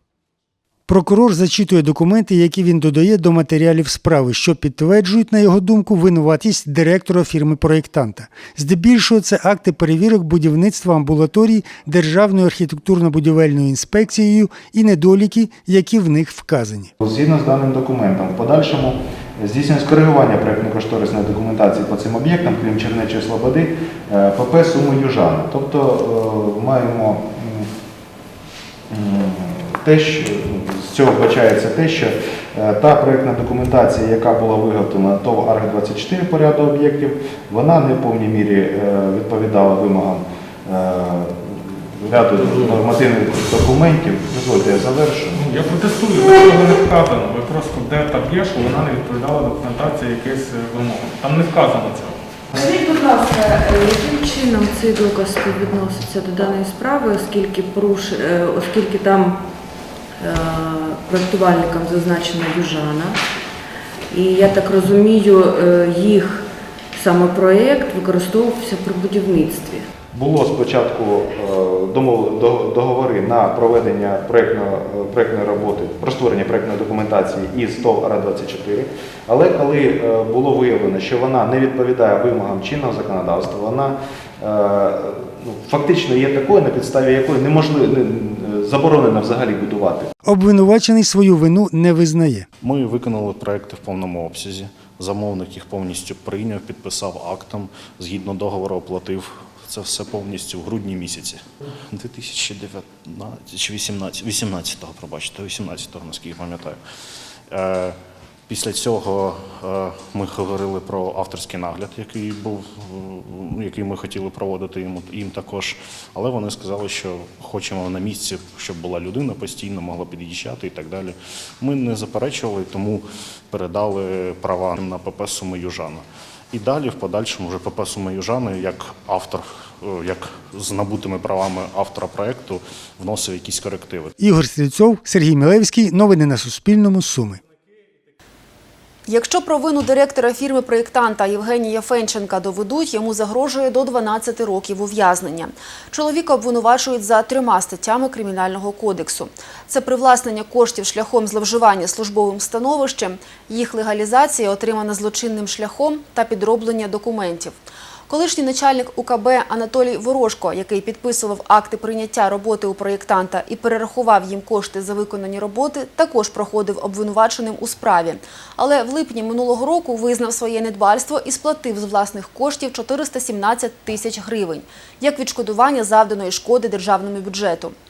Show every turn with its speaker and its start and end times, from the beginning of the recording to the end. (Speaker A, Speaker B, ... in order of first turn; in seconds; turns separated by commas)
Speaker A: 0.9-16.9, Speaker B: 17.0-27.7, Speaker B: 28.9-45.4, Speaker C: 45.3-52.2, Speaker D: 52.5-59.4, Speaker D: 60.2-63.2, Speaker D: 64.1-69.8, Speaker B: 70.1-90.1, Speaker A: 90.2-92.5, Speaker E: 92.6-106.8, Speaker E: 107.5-108.0, Speaker E: 108.5-134.1, Speaker A: 134.2-137.4, Speaker F: 139.1-157.6, Speaker F: 158.1-177.8